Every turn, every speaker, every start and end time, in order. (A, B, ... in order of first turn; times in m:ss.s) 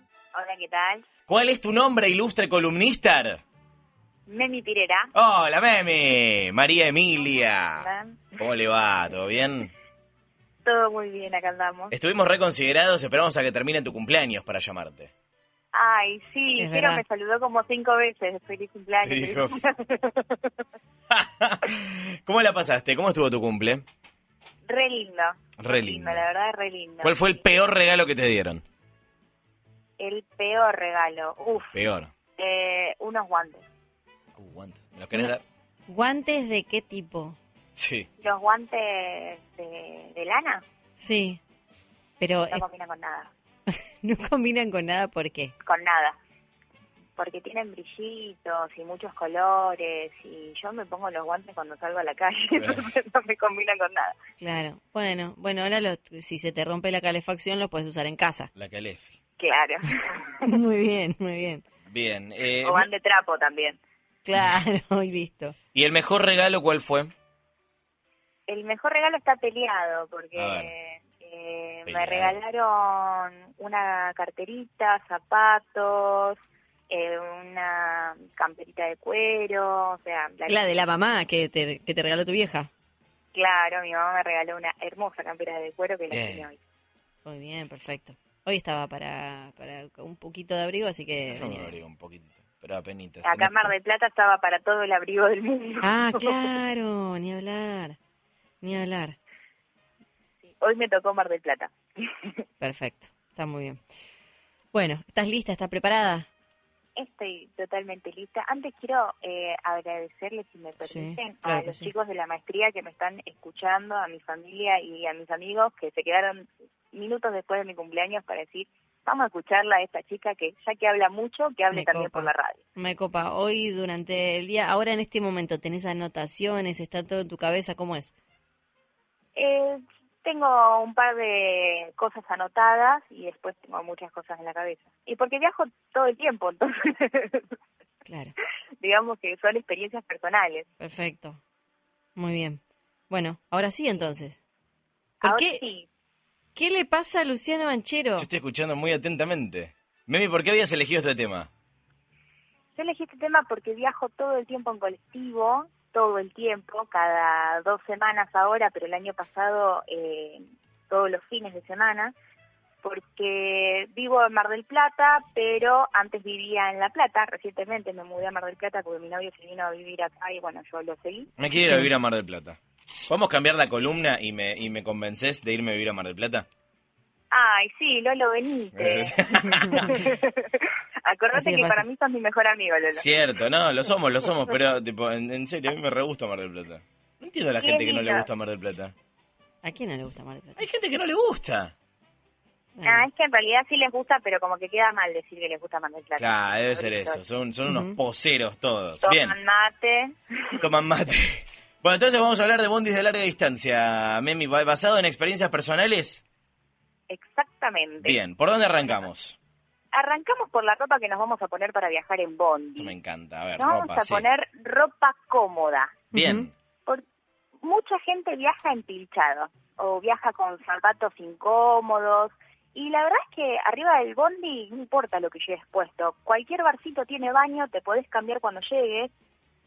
0:00.3-0:01.0 A
0:01.3-0:03.4 B
0:04.3-0:05.1 A
0:05.1-0:09.7 B
0:07.7-0:08.4 A
0:10.6-0:11.9 A
0:11.9-0:15.1 B
0:15.7-0:20.5 A
0:16.6-0:17.0 C
0:19.0-0:19.5 B
0:21.1-0:23.8 B
0:24.6-0:27.4 A
0:25.6-0:26.2 B
0:27.0-0:28.6 B
0:30.0-0:31.7 A
0:31.7-0:32.1 B
0:32.4-0:33.6 A
0:34.4-0:35.4 B
0:35.9-0:37.4 C
0:37.7-0:38.1 B
0:38.2-0:40.6 A
0:41.0-0:41.4 C
0:42.2-0:42.6 C
0:42.5-0:43.3 A
0:43.7-0:45.5 C
0:45.6-0:46.2 A
0:47.2-0:54.2 A
0:52.5-0:52.8 B
0:54.4-0:58.5 C
0:58.6-0:59.1 B
0:59.4-1:00.6 A
1:00.4-1:01.6 C
1:01.9-1:02.9 B
1:02.6-1:03.8 A
1:04.2-1:05.5 C
1:05.7-1:07.1 B
1:08.5-1:16.4 A
1:10.4-1:10.7 B
1:11.8-1:12.4 B
1:16.9-1:20.6 A
1:20.4-1:22.7 C
1:23.3-1:26.6 A
1:26.1-1:26.5 B
1:27.2-1:31.8 C
1:31.3-1:33.7 B
1:33.2-1:36.5 A
1:35.8-1:38.0 C
1:38.6-1:39.2 C
1:40.6-1:42.4 A
1:42.6-1:43.8 C
1:44.7-1:46.3 C
1:47.0-2:02.6 A
1:50.8-1:51.9 C
2:01.7-2:08.1 C
2:09.4-2:17.5 A
2:18.0-2:18.3 C
2:18.8-2:20.7 A
2:20.8-2:21.4 C
2:22.2-2:24.4 C
2:25.2-2:25.6 C
2:25.2-2:25.9 A
2:26.6-2:28.3 C
2:28.2-2:31.5 B
2:32.8-2:42.1 A
2:42.8-2:51.3 A
2:51.4-2:56.4 B
2:57.3-3:03.0 A
2:58.8-3:00.0 B
3:01.3-3:01.8 C
3:02.9-3:08.9 B
3:07.6-3:08.3 A
3:09.6-3:10.6 C
3:10.6-3:11.7 B
3:12.8-3:13.1 C
3:12.8-3:17.2 A
3:16.2-3:19.3 B
3:17.7-3:18.0 C
3:19.0-3:20.6 A
3:20.6-3:26.2 B
3:27.1-3:28.2 A
3:28.0-3:29.4 B
3:29.9-3:32.9 A
3:32.8-3:34.2 B
3:33.6-3:36.0 A
3:36.1-3:36.5 C
3:36.1-3:36.5 B
3:37.6-3:49.1 A